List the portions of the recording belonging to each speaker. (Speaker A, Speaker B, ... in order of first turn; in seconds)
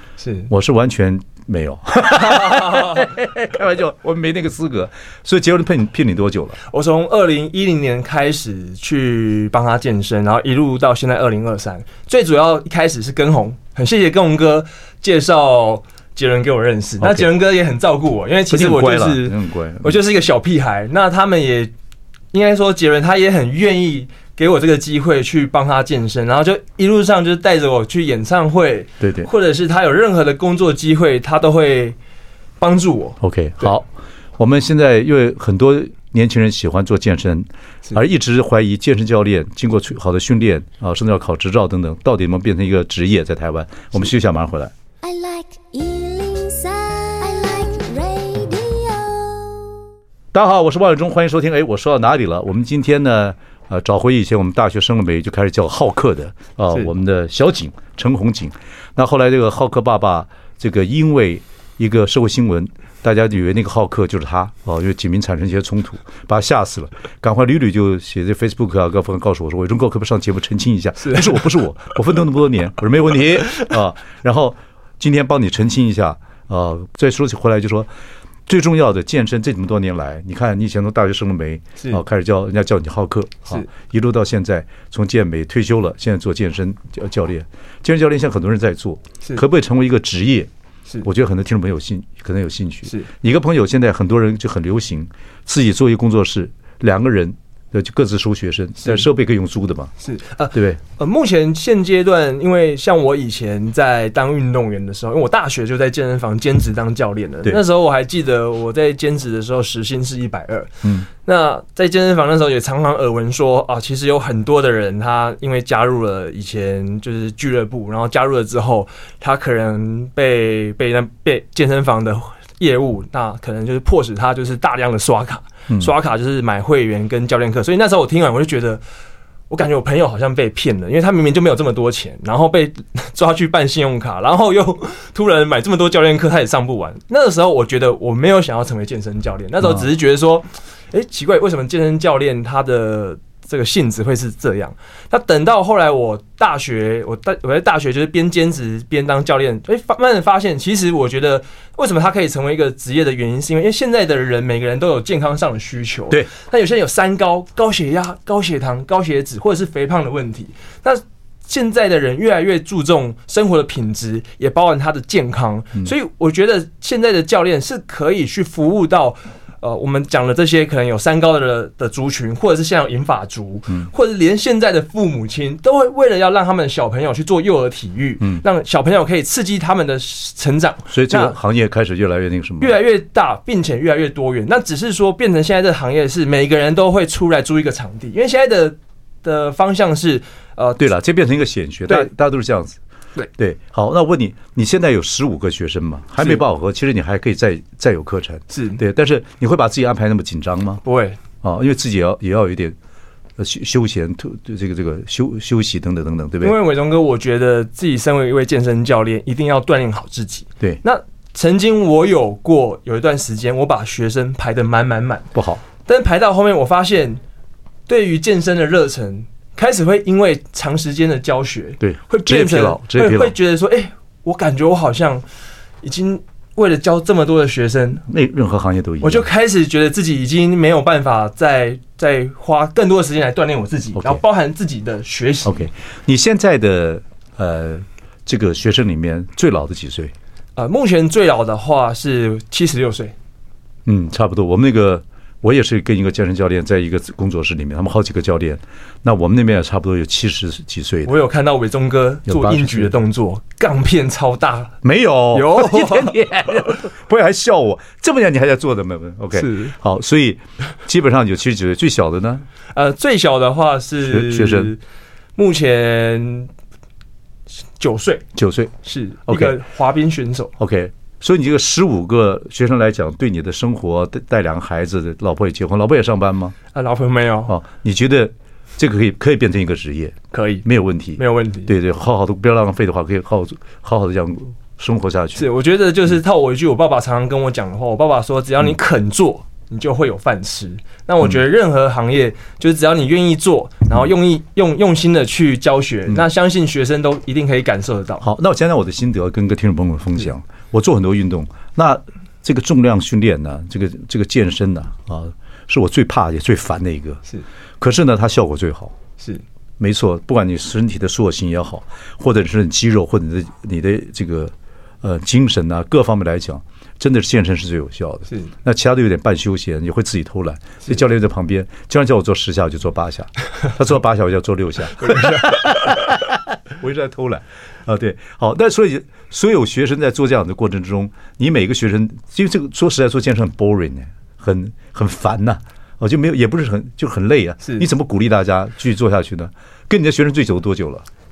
Speaker A: 0.2-0.5, 2.2-3.1, 6.7-21.7, 22.3-32.0, 32.6-33.7, 71.0-71.5, 100.0-128.8, 129.5-181.4, 182.6-190.8, 198.5-198.8, 200.8-201.2, 206.4-217.2, 217.9-225.2, 225.8-228.1, 229.0-235.7, 240.6-243.2, 251.1-254.8, 255.3-256.2, 259.4-259.7, 262.7-264.8, 265.4-266.5, 267.8-268.3, 268.8-270.5, 276.7-277.6, 280.3-280.6, 281.2-281.7, 285.4-298.2, 309.2-309.4, 325.0-325.6, 337.6-337.9
Speaker B: 0.5-6.6, 17.0-17.3, 18.5-20.0, 29.0-29.3, 33.2-44.7, 50.3-77.9, 78.5-90.5, 91.0-99.9, 100.5-100.8, 180.9-182.8, 190.8-192.8, 193.4-200.8, 201.4-202.8, 203.4-206.6, 215.3-215.6, 221.8-223.3, 228.1-229.3, 234.0-234.2, 235.4-240.1, 243.9-251.2, 252.3-252.9, 254.8-262.4, 264.0-264.8, 268.4-268.8, 269.3-269.6, 270.6-276.6, 277.5-285.5, 298.2-307.2, 307.8-309.0, 309.8-341.1
Speaker C: 45.0-49.8